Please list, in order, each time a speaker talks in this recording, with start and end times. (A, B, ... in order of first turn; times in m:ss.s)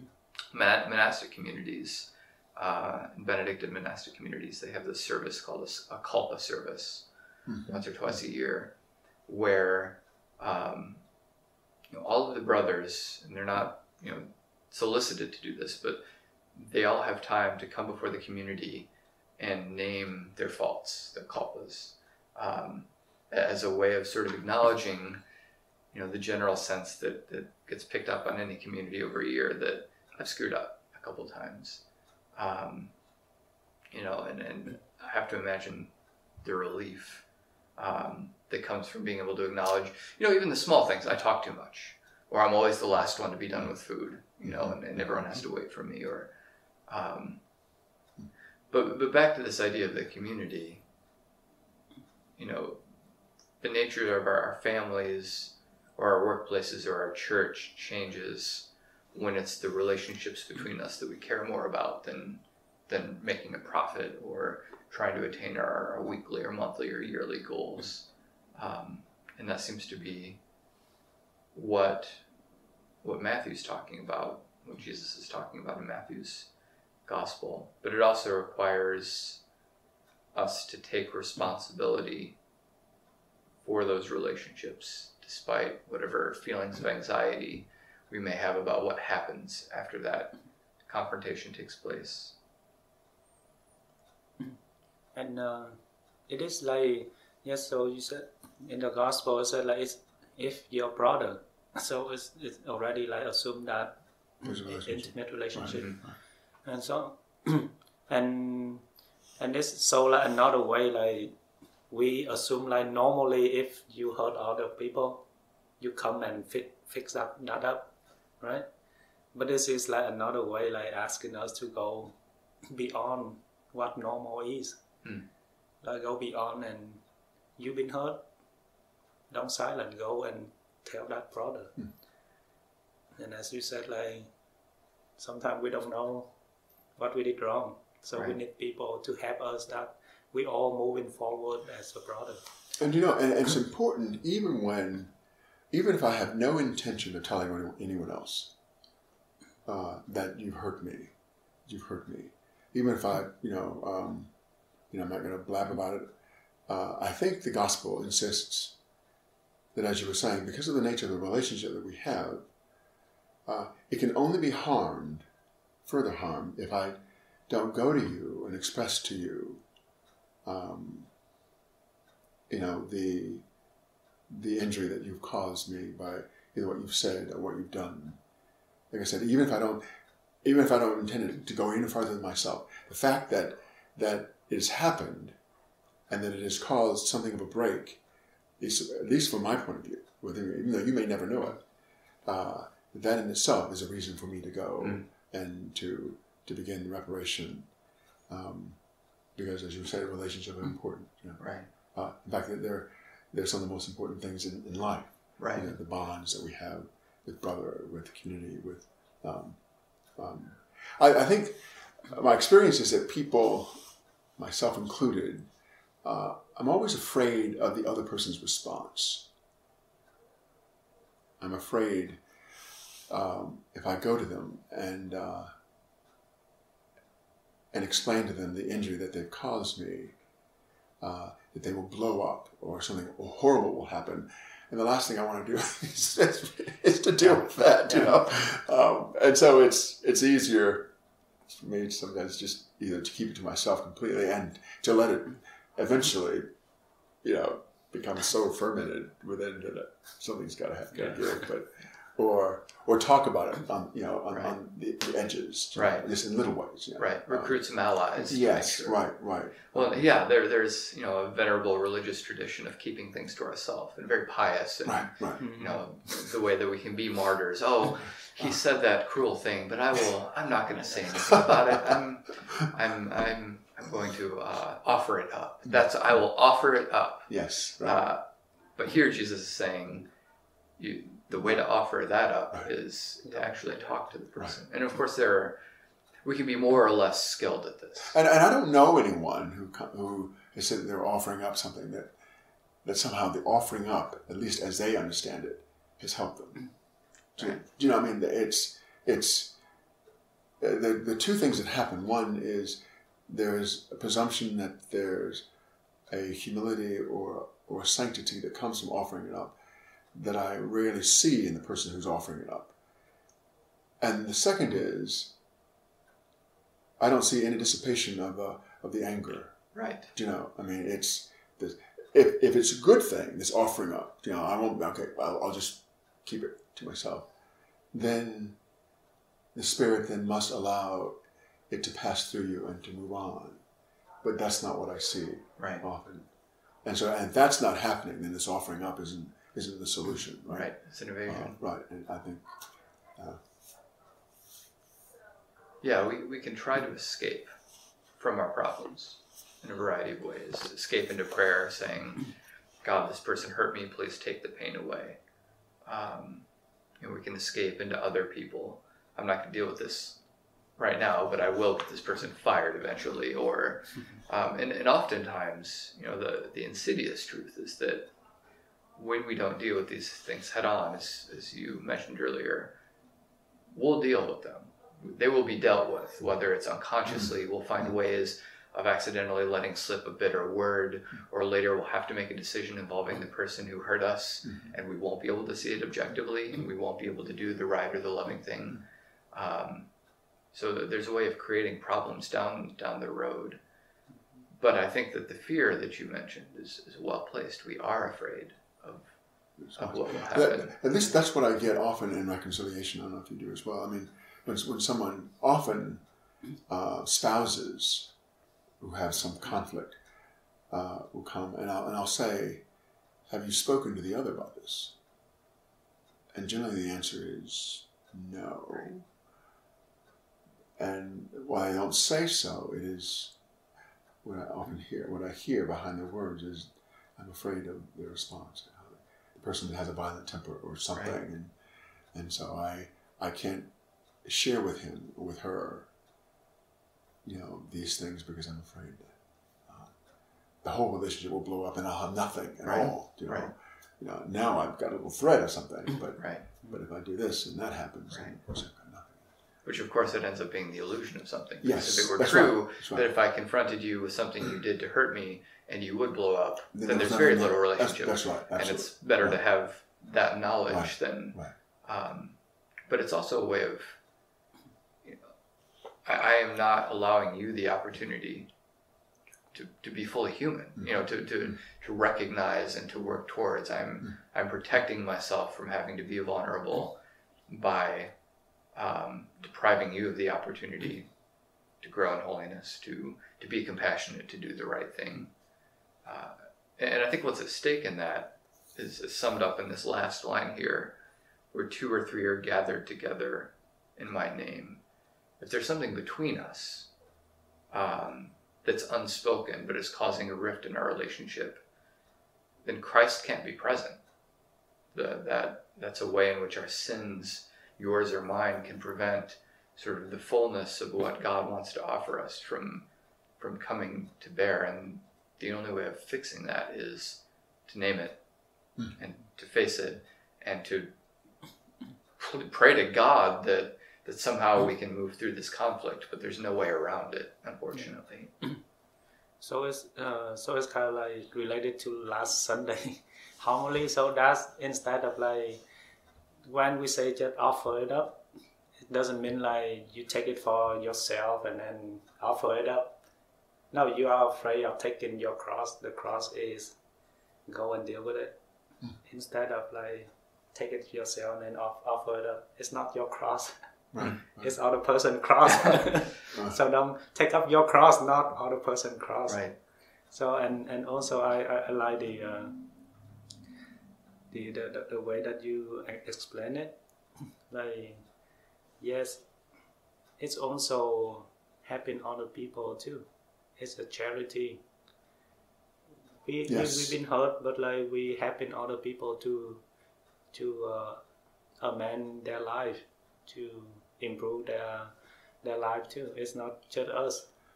0:00.5-0:07.1 A
0:07.5-0:07.8 B
0:07.7-0:08.7 A
0:09.3-0:11.0 A
0:11.9-0:16.0 A
0:16.5-0:25.2 A
0:25.9-0:31.8 A
0:32.4-0:32.9 A
0:33.9-0:35.9 A
0:36.4-0:37.2 A
0:37.8-0:46.3 A
0:44.4-0:44.7 B
0:46.9-0:47.4 A
0:48.7-0:50.8 A
0:52.4-0:52.8 A
0:53.6-1:10.4 A
1:11.5-1:12.2 A
1:13.0-1:16.5 A
1:17.0-1:19.4 A
1:20.3-1:22.4 A
1:23.6-1:30.4 A
1:30.9-1:32.4 A
1:35.1-1:45.9 C
1:44.4-1:46.1 B
1:45.7-1:46.0 A
1:46.6-1:48.8 C
1:49.4-1:51.3 C
1:51.9-1:55.2 C
1:55.8-1:58.6 C
1:59.3-2:02.2 C
2:02.7-2:04.8 C
2:05.8-2:07.0 C
2:07.6-2:08.2 C
2:09.3-2:11.7 C
2:13.2-2:14.3 C
2:15.2-2:16.3 C
2:17.0-2:22.4 C
2:22.8-2:25.1 B
2:25.7-2:28.5 B
2:29.6-2:31.1 B
2:31.6-2:34.3 B
2:34.9-2:36.1 B
2:36.7-2:38.8 B
2:39.7-2:42.4 B
2:43.4-2:45.3 B
2:45.8-2:47.0 B
2:47.5-2:49.6 B
2:50.4-2:51.1 B
2:52.5-2:53.4 B
2:54.3-2:58.2 B
2:58.9-2:59.8 B
3:00.4-3:05.4 B
3:06.1-3:08.0 B
3:08.6-3:11.6 B
3:12.2-3:17.7 B
3:18.3-3:18.8 B
3:19.3-3:21.4 B
3:21.4-3:21.7 A
3:21.9-3:29.6 B
3:25.4-3:25.7 A
3:30.2-3:33.8 B
3:34.4-3:35.5 B
3:36.0-3:39.3 B
3:41.4-3:42.2 B
3:43.1-3:45.5 B
3:47.7-3:50.1 B
3:51.0-4:00.9 B
4:01.5-4:06.5 B
4:07.2-4:17.6 B
4:15.7-4:16.1 A
4:17.0-4:19.0 A
4:18.2-4:20.0 B
4:19.7-4:37.3 A
4:24.8-4:25.4 B
4:25.4-4:25.8 C
4:31.2-4:32.0 B
4:37.3-4:38.1 B
4:37.8-4:38.2 A
4:38.8-4:40.1 A
4:40.8-4:45.6 A
4:43.2-4:44.0 C
4:46.2-4:48.2 A
4:48.0-4:52.1 B
4:52.8-4:56.7 B
4:57.4-4:59.5 B
5:00.6-5:05.4 B
5:06.1-5:09.5 B
5:10.1-5:12.7 B
5:14.0-5:15.3 B
5:17.0-5:19.6 B
5:19.7-5:20.1 A
5:20.1-5:27.3 B
5:27.9-5:28.6 B
5:29.5-5:31.2 B
5:31.7-5:33.6 B
5:34.2-5:36.3 B
5:36.8-5:40.7 B
5:40.5-5:41.6 A
5:41.2-5:42.4 B
5:45.8-5:47.5 A
5:48.2-5:52.3 A
5:52.8-5:55.2 A
5:55.8-5:56.4 A
5:57.0-6:00.2 A
6:00.8-6:08.1 A
6:09.0-6:12.7 A
6:13.7-6:29.9 A
6:30.5-6:33.6 A
6:34.5-6:39.1 A
6:39.6-6:46.0 B
6:39.8-6:40.8 A
6:46.7-6:48.1 B
6:48.8-6:50.0 B
6:50.7-6:52.6 B
6:53.3-6:55.0 B
6:56.3-6:59.1 B
7:00.8-7:03.4 B
7:04.2-7:11.5 B
7:12.1-7:13.7 B
7:14.2-7:15.9 B
7:17.2-7:19.9 B
7:20.6-7:29.2 B
7:22.6-7:23.5 A
7:26.2-7:26.5 A
7:28.1-7:28.4 A
7:29.6-7:42.4 A
7:31.6-7:33.1 B
7:36.7-7:39.4 B
7:40.7-7:41.5 B
7:42.9-7:44.0 A
7:45.0-7:45.3 A
7:46.0-7:48.5 A
7:49.5-7:57.0 A
7:57.5-7:58.1 A
7:58.7-8:01.1 A
8:01.8-8:05.3 A
8:06.0-8:11.0 A
8:11.5-8:14.8 A
8:15.4-8:16.9 A
8:17.7-8:21.6 A
8:22.6-8:24.0 A
8:24.9-8:32.9 A
8:33.4-8:38.2 A
8:38.9-8:40.9 A
8:42.2-8:48.3 A
8:49.4-8:55.6 C
8:56.4-8:58.2 C
8:58.9-9:03.0 C
9:03.7-9:06.7 C
9:07.5-9:08.4 C
9:09.0-9:13.5 C
9:13.9-9:14.5 B
9:14.4-9:19.4 C
9:16.3-9:16.6 B
9:19.3-9:19.6 A
9:20.1-9:22.6 C
9:24.3-9:26.8 C
9:27.5-9:28.0 C
9:28.8-9:29.2 C
9:30.2-9:33.1 C
9:33.6-9:34.6 C
9:36.2-9:39.6 C
9:36.5-9:37.0 B
9:40.3-9:41.0 C
9:41.6-9:44.9 C
9:45.4-9:47.3 C